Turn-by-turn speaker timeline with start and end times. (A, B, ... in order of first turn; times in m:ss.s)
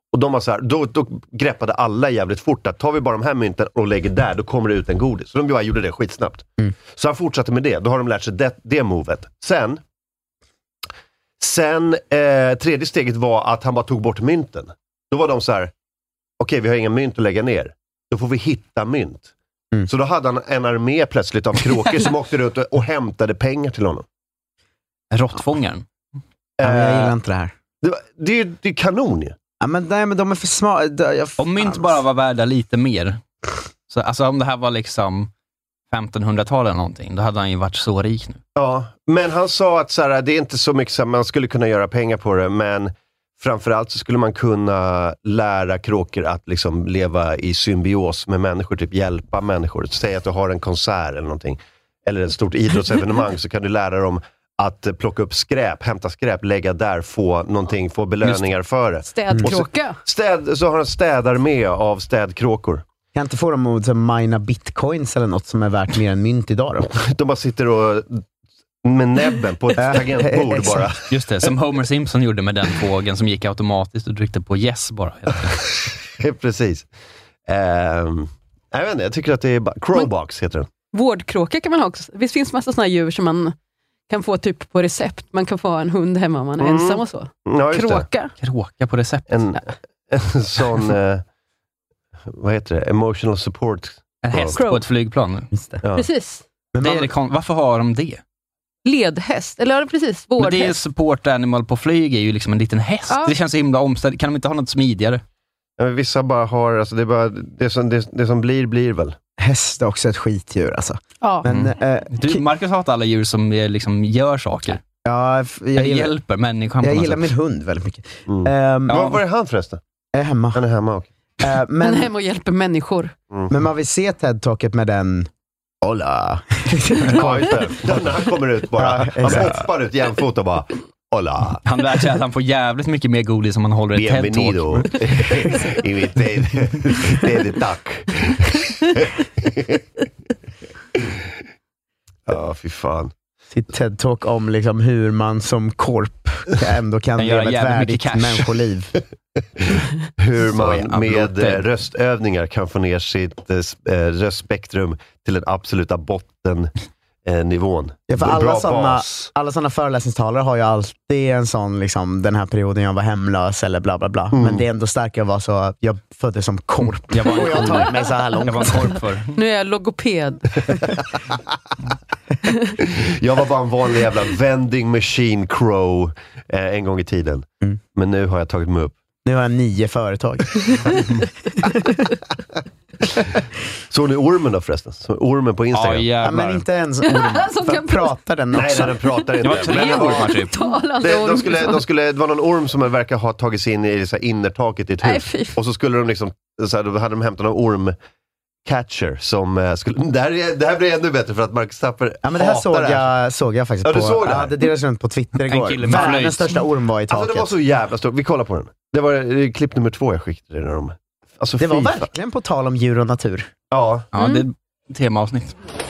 0:00.1-0:09.8 A
0:11.4-0:15.7 A
0:16.4-0:19.3 A
0:19.8-0:24.0 A
0:25.1-0:25.8 B
0:26.6-0:27.1 A
0:26.6-0:27.5 C
0:27.8-0:29.4 A
0:29.6-0:32.0 C
0:31.4-0:33.2 B
0:33.9-0:35.3 B
0:35.9-0:38.4 B
0:38.6-1:02.8 A
0:58.2-0:58.5 B
0:59.1-1:00.0 D
1:03.1-1:06.9 C
1:06.9-1:08.2 A
1:08.8-1:11.0 A
1:09.8-1:10.9 C
1:11.1-1:15.6 B
1:16.2-1:16.9 A
1:17.5-1:20.7 A
1:20.9-1:23.5 D
1:24.1-1:28.3 D
1:26.6-1:28.1 A
1:28.4-1:29.3 B
1:29.3-1:31.2 A
1:32.3-1:34.6 A
1:34.2-1:35.5 B
1:34.5-1:34.8 D
1:35.5-1:35.8 C
1:35.9-1:36.4 D
1:36.7-1:37.1 C
1:36.8-1:38.2 B
1:38.8-1:40.8 D
1:40.4-1:45.2 B
1:43.1-1:43.3 D
1:45.8-1:49.2 A
1:49.4-1:52.4 C
1:51.4-1:54.8 B
1:55.0-1:56.1 C
1:55.8-1:57.3 B
1:56.8-1:59.1 C
1:58.3-1:59.8 A
1:58.9-1:59.2 B
2:00.1-2:00.6 C
2:00.5-2:01.1 A
2:01.4-2:02.1 C
2:01.8-2:03.1 D
2:03.5-2:05.3 C
2:05.8-2:08.0 C
2:07.0-2:07.3 B
2:07.1-2:11.6 A
2:08.7-2:09.7 C
2:11.6-2:15.2 B
2:14.0-2:19.8 A
2:22.3-2:23.1 A
2:23.5-2:29.0 C
2:27.2-2:28.5 B
2:29.6-2:36.7 A
2:30.4-2:31.6 B
2:37.2-2:39.3 A
2:38.1-2:49.0 C
2:44.3-2:44.6 A
2:47.1-2:49.4 B
2:49.3-2:50.4 D
2:52.8-2:58.9 A
2:59.2-3:00.9 C
3:01.6-3:01.9 C
3:03.9-3:06.1 A
3:05.7-3:06.6 B
3:06.2-3:09.1 C
3:07.0-3:08.1 D
3:08.5-3:10.4 A
3:09.4-3:10.6 B
3:09.7-3:11.8 D
3:11.0-3:17.9 A
3:15.0-3:15.6 D
3:18.6-3:23.1 A
3:22.2-3:27.5 C
3:23.8-3:24.6 A
3:25.4-3:26.6 B
3:27.1-3:32.1 A
3:31.6-3:33.5 C
3:33.7-3:34.1 A
3:34.1-3:35.5 B
3:34.2-3:34.4 D